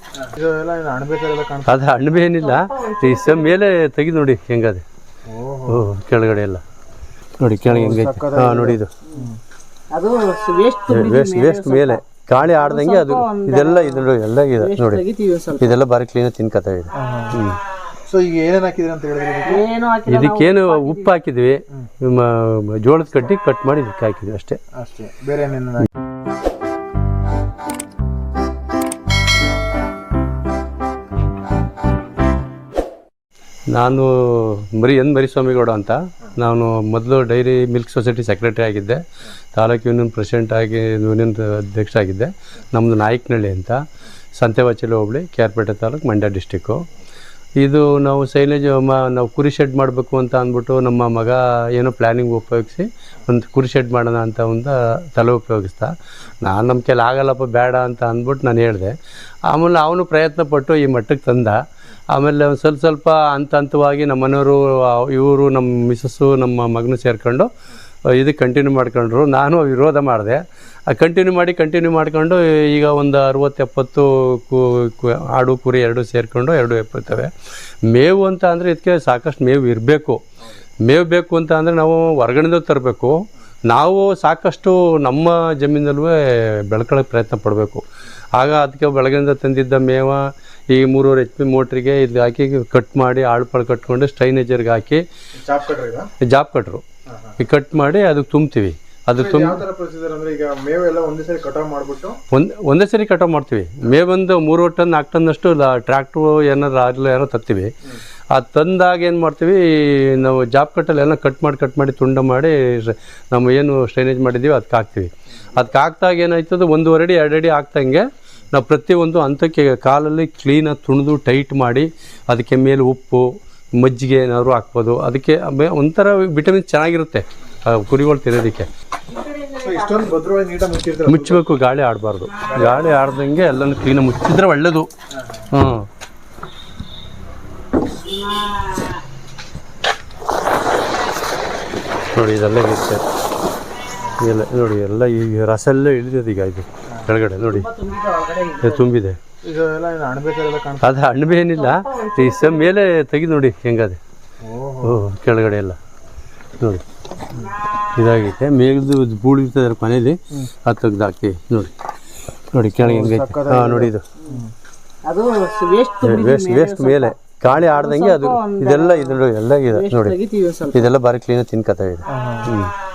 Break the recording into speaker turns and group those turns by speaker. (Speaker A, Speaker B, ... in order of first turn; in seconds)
Speaker A: 0.2-1.8, 5.2-5.9, 7.7-9.4, 16.9-17.4, 18.0-19.7, 24.7-25.9, 95.4-96.1, 99.2-102.2, 129.6-131.5, 132.4-133.0, 135.1-135.5, 149.4-151.0, 154.4-155.0, 162.8-164.5, 172.1-172.5
Speaker B: 1.7-4.8, 5.7-6.6, 7.4-8.9, 10.9-15.0, 15.6-17.6, 20.1-24.6, 33.7-39.0, 39.5-43.8, 44.4-46.8, 47.6-58.9, 59.5-67.5, 68.1-77.3, 77.9-80.2, 80.8-87.8, 88.3-95.0, 96.2-96.8, 97.4-99.6, 102.3-107.7, 108.3-128.7, 131.1-134.9, 135.5-135.8, 142.1-143.0, 144.2-147.7, 148.6-149.2, 150.8-154.0, 154.8-155.8, 156.6-156.8, 157.9-161.7, 162.5-164.0, 166.0-170.2, 170.7-172.7
Speaker C: 2.4-3.6, 9.9-15.8, 19.4-21.1, 129.1-130.1, 147.4-148.8, 151.5-152.8, 165.0-171.0